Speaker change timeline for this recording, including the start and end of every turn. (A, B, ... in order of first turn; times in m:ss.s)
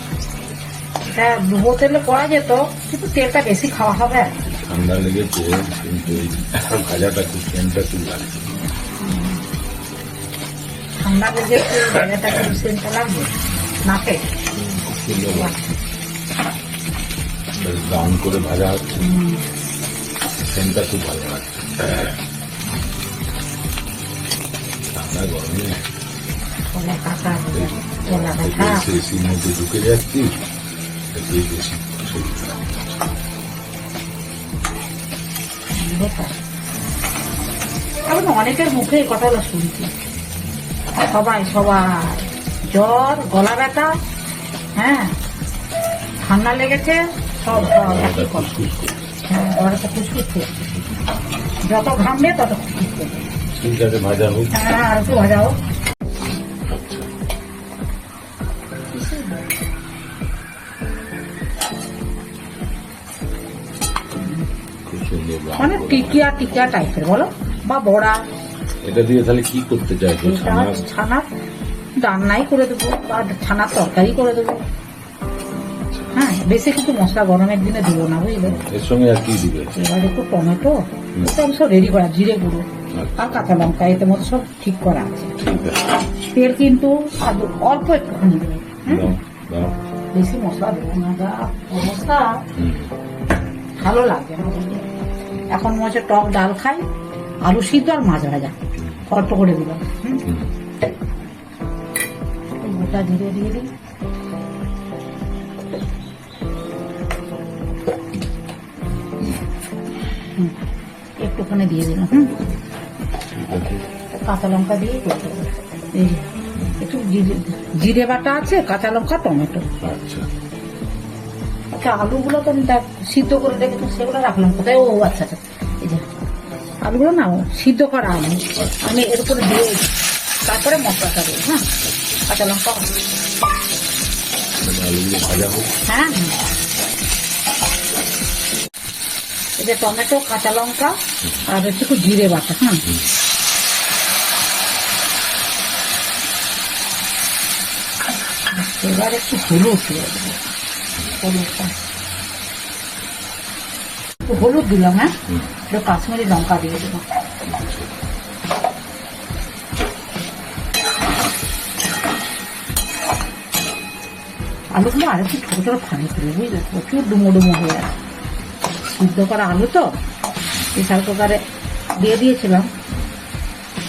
0:01.0-0:04.4 A
0:04.5-0:08.6 B
0:09.0-0:09.4 A
0:11.0-0:14.3 A
0:14.5-0:15.6 B
0:15.3-0:15.6 A
0:17.6-0:19.0 B
0:19.0-0:19.4 A
0:20.5-0:22.2 B
0:24.9-0:25.8 B
0:26.7-0:28.8 A
0:27.5-0:30.4 B
0:31.1-0:33.0 B
0:35.7-0:36.4 A
0:38.1-0:39.9 A
0:41.1-0:44.0 A
0:44.8-0:45.2 A
0:46.2-0:48.5 A
0:47.5-0:49.0 B
0:49.3-0:50.5 A
0:51.6-0:53.2 A
0:53.3-0:54.7 B
0:54.5-0:55.6 A
0:56.7-0:57.1 B
0:58.9-0:59.5 A
1:04.8-1:06.6 B
1:05.6-1:08.2 A
1:08.8-1:10.8 B
1:10.2-1:11.3 A
1:12.0-1:14.6 A
1:16.1-1:18.6 A
1:18.4-1:19.8 B
1:19.7-1:22.6 A
1:22.9-1:23.4 B
1:23.2-1:25.4 A
1:25.4-1:25.8 B
1:26.3-1:29.1 A
1:28.8-1:29.8 B
1:30.1-1:32.4 A
1:32.5-1:32.9 B
1:33.8-1:34.9 A
1:35.5-1:36.8 A
1:37.4-1:38.6 A
1:38.8-1:39.1 B
1:39.1-1:40.2 A
1:40.2-1:40.5 B
1:42.6-1:43.7 A
1:51.2-1:52.4 A
1:53.3-1:53.8 B
1:54.1-1:56.2 A
1:56.8-1:59.7 A
1:59.8-2:00.3 B
2:01.7-2:06.0 A
2:06.8-2:09.9 A
2:08.6-2:08.8 B
2:10.4-2:11.7 A
2:12.3-2:12.9 A
2:14.6-2:15.7 B
2:15.8-2:16.4 A
2:19.6-2:22.8 A
2:22.8-2:23.1 B
2:28.5-2:30.5 A
2:31.2-2:31.7 A
2:34.3-2:35.1 A
2:35.7-2:37.0 A
2:37.4-2:37.9 B
2:44.7-2:47.9 A
2:48.8-2:50.0 A
2:50.7-2:51.4 A
2:52.0-2:52.7 A